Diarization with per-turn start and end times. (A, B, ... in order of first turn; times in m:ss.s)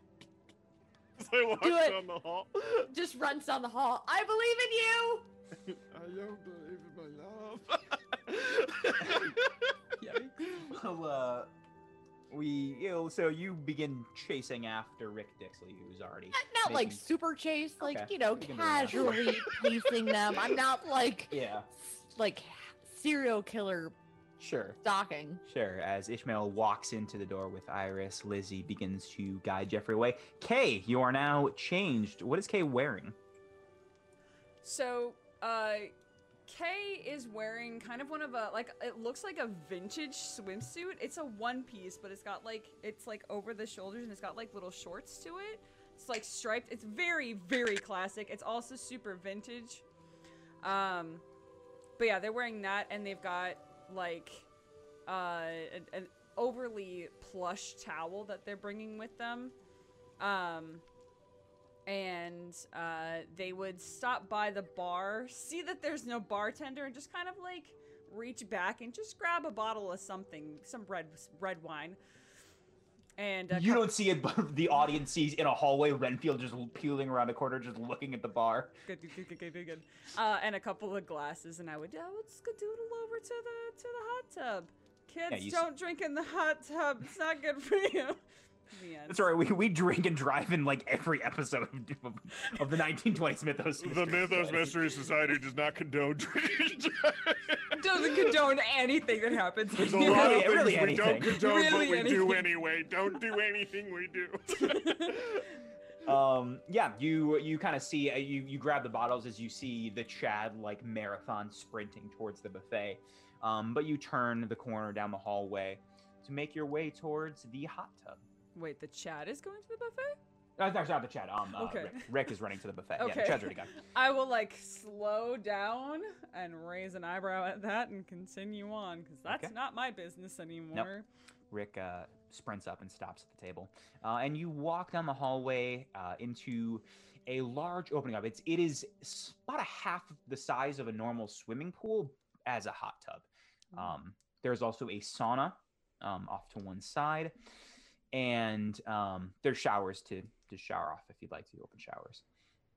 0:01.2-0:02.9 A
0:01.6-0:02.0 B
0:02.8-0:05.3 B
0:05.7-0:09.6 A
0:10.0-0:10.7 C
0:10.6-0:11.5 D
0:12.3-0:17.0 D
0:16.3-0:24.0 B
0:17.8-0:19.6 D
0:21.3-0:21.6 D
0:24.4-0:24.8 D
0:24.8-0:25.4 B
0:25.4-0:33.2 D
0:34.6-0:35.9 E
0:36.5-0:49.8 E
0:50.6-0:51.2 E
0:52.0-0:54.5 E
0:55.0-0:59.5 E
1:00.2-1:00.8 E
1:01.8-1:12.0 E
1:13.2-1:13.9 E
1:13.5-1:18.8 D
1:18.8-1:28.2 E
1:25.3-1:25.6 D
1:28.7-1:29.3 E
1:29.1-1:34.9 D
1:33.8-1:38.3 A
1:37.7-1:40.5 C
1:39.8-1:45.2 A
1:39.8-1:41.4 D
1:41.2-1:42.5 C
1:46.0-1:58.2 D
1:58.5-2:00.2 E
2:00.6-2:03.8 D
2:01.5-2:02.4 E
2:03.0-2:11.0 E
2:09.3-2:09.5 D
2:11.5-2:27.3 D
2:28.1-2:32.2 D